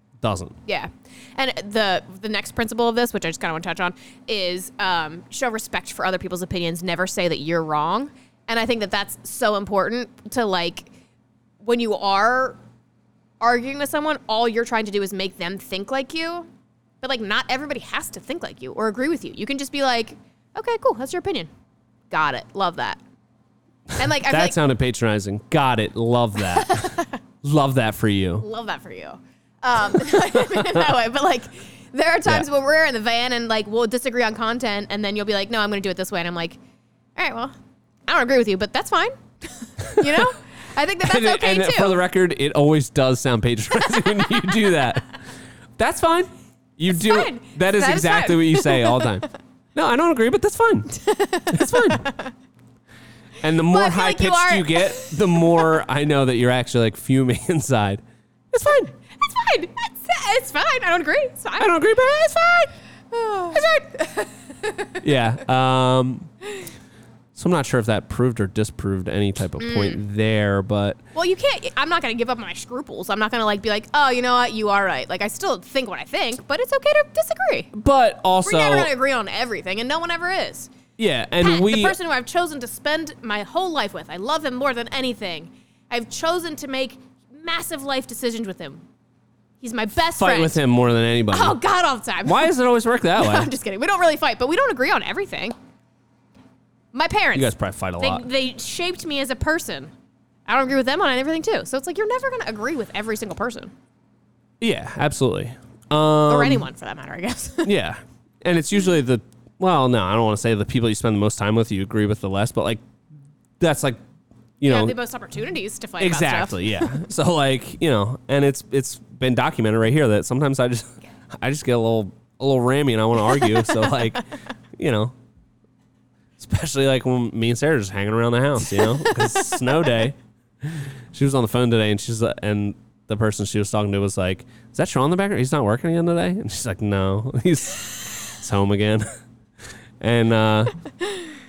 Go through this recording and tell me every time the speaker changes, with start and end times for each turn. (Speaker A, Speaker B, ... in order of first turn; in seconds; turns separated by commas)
Speaker A: 0.2-0.6, Speaker B: 0.7-10.9, Speaker B: 11.6-12.6, Speaker B: 13.4-16.5, Speaker B: 17.0-21.5, Speaker B: 22.1-23.0, Speaker B: 24.0-24.6, Speaker A: 24.2-28.4, Speaker B: 26.5-27.1, Speaker B: 28.4-36.6, Speaker A: 30.1-30.9, Speaker B: 37.1-37.5, Speaker B: 38.1-42.0, Speaker A: 40.0-40.3, Speaker A: 41.0-45.1, Speaker B: 43.9-44.7, Speaker A: 45.8-50.9, Speaker B: 46.9-49.1, Speaker B: 50.9-52.3, Speaker A: 51.5-52.1, Speaker A: 53.4-58.9, Speaker B: 53.7-55.5, Speaker B: 59.1-61.7, Speaker A: 61.6-62.7, Speaker B: 63.1-65.0, Speaker A: 65.0-66.3, Speaker A: 67.3-71.0, Speaker B: 69.6-70.0, Speaker B: 71.1-77.7, Speaker A: 77.7-78.9, Speaker B: 78.4-80.7, Speaker A: 81.0-82.0, Speaker B: 81.4-88.8, Speaker B: 89.6-90.6, Speaker A: 90.2-91.6, Speaker B: 91.3-92.5, Speaker A: 92.2-93.5, Speaker B: 93.2-95.5, Speaker B: 96.9-99.9, Speaker A: 97.3-98.2, Speaker B: 100.5-103.7, Speaker A: 104.6-106.7, Speaker B: 106.3-107.7, Speaker A: 107.6-112.8, Speaker A: 113.6-114.0, Speaker A: 114.6-114.9, Speaker B: 114.6-116.6, Speaker A: 116.0-125.1, Speaker A: 126.4-139.1, Speaker A: 140.0-140.8